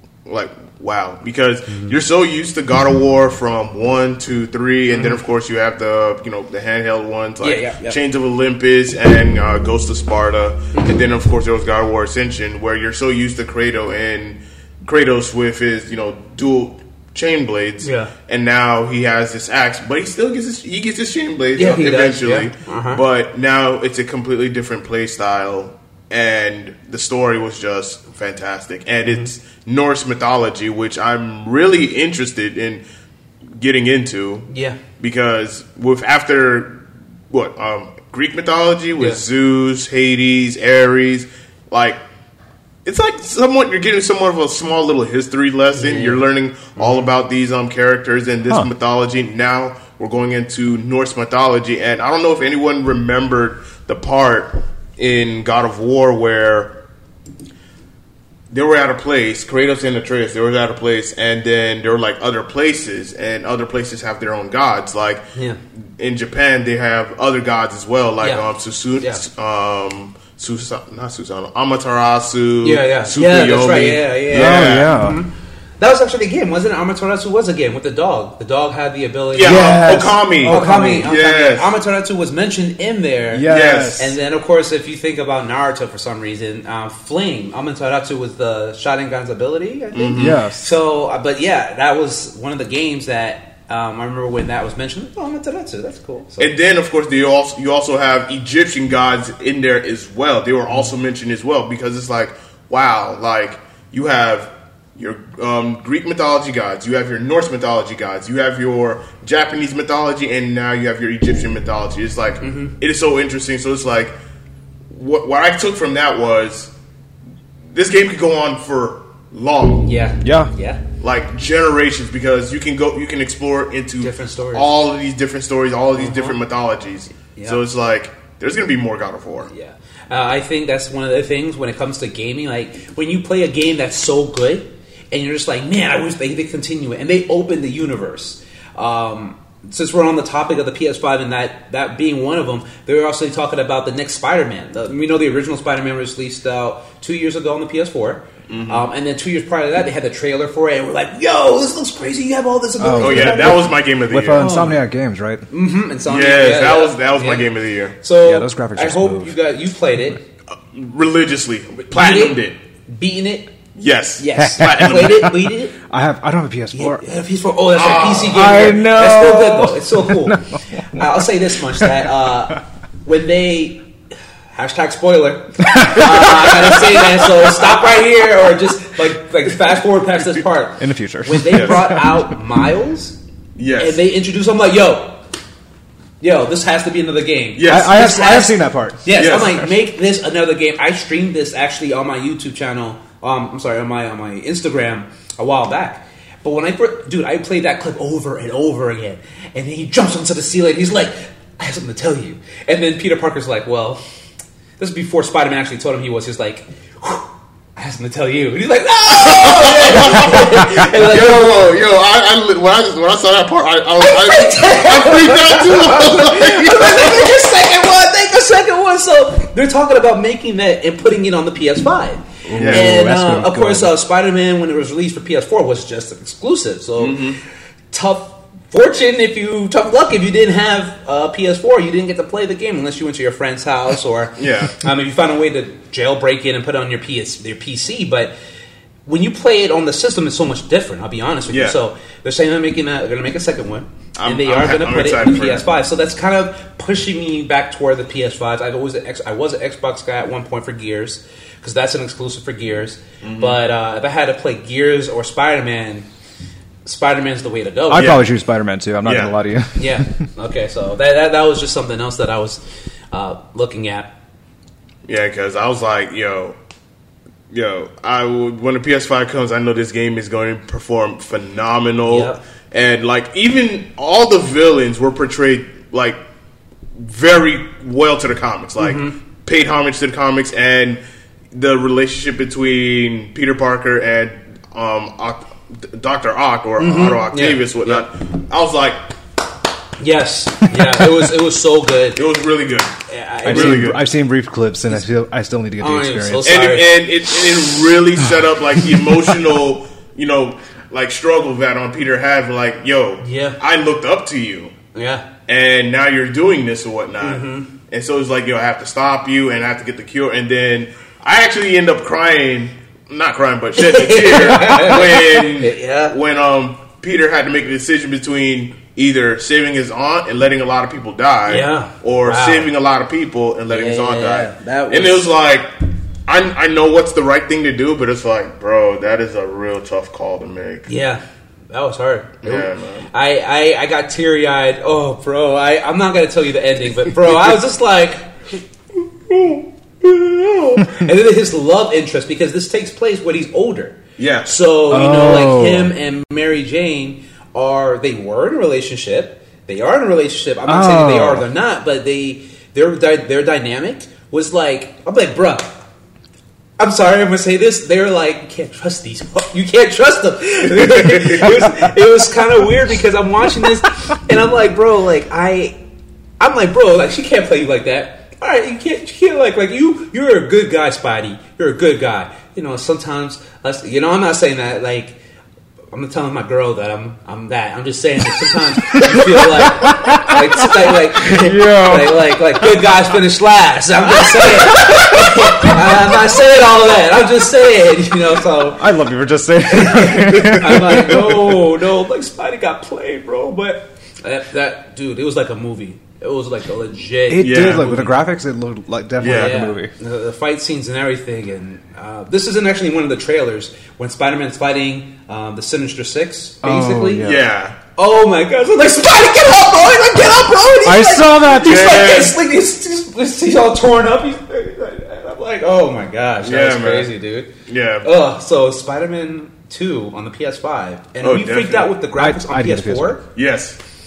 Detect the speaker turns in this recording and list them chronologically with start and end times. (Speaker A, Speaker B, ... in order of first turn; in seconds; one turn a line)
Speaker A: 0.2-32.8
Speaker B: 4.9-5.2
Speaker B: 7.4-8.0
Speaker B: 17.8-18.1
Speaker B: 21.6-23.0
Speaker A: 33.5-42.0
Speaker B: 34.5-34.8
Speaker B: 39.0-39.2
Speaker A: 42.8-56.8
Speaker B: 45.8-46.2
Speaker B: 46.8-47.1
Speaker A: 58.5-65.2
Speaker A: 66.0-75.0
Speaker B: 68.2-68.5
Speaker B: 72.6-96.5
Speaker C: 74.3-75.2
Speaker A: 79.3-81.8
Speaker C: 79.4-81.1
Speaker C: 83.3-84.2
Speaker A: 83.5-84.0
Speaker A: 89.9-90.4
Speaker C: 90.2-90.8
Speaker A: 96.4-114.1
Speaker B: 112.4-112.8
Speaker A: 114.9-116.7
Speaker A: 117.7-119.9
Speaker B: 119.8-120.8
Speaker C: 120.2-120.5
Speaker A: 121.0-129.5
Speaker B: 124.0-124.7
Speaker B: 126.0-126.4
Speaker B: 127.3-127.6
Speaker B: 129.5-153.7
Speaker A: 148.5-148.8
Speaker C: 152.8-155.5
Speaker A: 153.0-154.5
Speaker B: 154.3-154.8
Speaker B: 155.5-157.5
Speaker A: 156.0-158.0
Speaker B: 158.0-160.2
Speaker C: 158.2-159.3
Speaker A: 160.6-162.5
Speaker B: 161.9-163.5
Speaker A: 163.8-165.4
Speaker B: 164.2-165.8
Speaker C: 164.3-167.0
Speaker B: 166.7-173.8
Speaker A: 167.7-168.5
Speaker C: 168.2-172.1
Speaker B: 174.5-183.2
Speaker C: 175.6-177.5
Speaker C: 180.8-182.3
Speaker A: 181.5-181.8
Speaker A: 183.6-184.0
Speaker B: 183.8-185.2
Speaker B: 186.2-204.0
Speaker A: 187.6-188.4
Speaker C: 187.6-189.6
Speaker A: 189.2-189.6
Speaker B: 204.8-211.8
Speaker A: 209.1-217.4
Speaker B: 214.0-227.3
Speaker C: 222.4-223.9
Speaker A: 222.5-222.9
Speaker A: 227.0-227.4
Speaker B: 227.9-238.3
Speaker A: 234.4-234.8
Speaker B: 239.1-256.1
Speaker A: 241.5-241.8
Speaker A: 244.2-245.7
Speaker A: 253.2-253.6
Speaker B: 256.8-258.2
Speaker C: 257.9-260.2
Speaker A: 257.9-258.3
Speaker A: 259.0-259.4
Speaker B: 259.8-264.1
Speaker A: 265.1-266.6
Speaker A: 267.5-276.2
Speaker B: 272.1-272.4
Speaker A: 276.9-281.0
Speaker B: 278.8-279.1
Speaker A: 281.5-289.0
Speaker B: 286.8-288.0
Speaker B: 290.0-292.2
Speaker C: 290.8-291.1
Speaker A: 292.1-294.0
Speaker B: 293.1-293.9
Speaker C: 293.4-296.5
Speaker B: 295.8-297.0
Speaker A: 296.4-304.7
Speaker B: 303.2-303.6
Speaker B: 304.9-305.3
Speaker A: 305.5-325.7
Speaker B: 307.2-307.7
Speaker B: 313.8-316.1
Speaker B: 321.5-322.7
Speaker B: 323.7-325.3
Speaker A: 326.3-330.9
Speaker B: 330.9-338.3
Speaker A: 332.4-333.1
Speaker B: 339.3-355.7
Speaker A: 344.2-344.6
Speaker C: 344.9-345.9
Speaker C: 350.7-351.4
Speaker B: 356.8-365.8
Speaker A: 361.0-361.4
Speaker B: 366.4-375.2
Speaker B: 375.9-389.0
Speaker C: 378.9-382.9
Speaker C: 384.4-386.1
Speaker C: 388.8-391.4
Speaker B: 389.7-398.1
Speaker A: 390.3-391.6
Speaker C: 397.3-399.9
Speaker A: 397.4-398.1
Speaker A: 399.2-399.6
Speaker B: 399.3-407.3
Speaker C: 406.6-407.4
Speaker A: 407.2-407.8
Speaker B: 407.9-417.5
Speaker C: 410.8-412.0
Speaker A: 411.6-412.4
Speaker A: 416.4-417.1
Speaker A: 417.6-418.1
Speaker B: 418.0-423.2
Speaker A: 421.2-421.9
Speaker C: 422.2-423.2
Speaker A: 423.3-423.8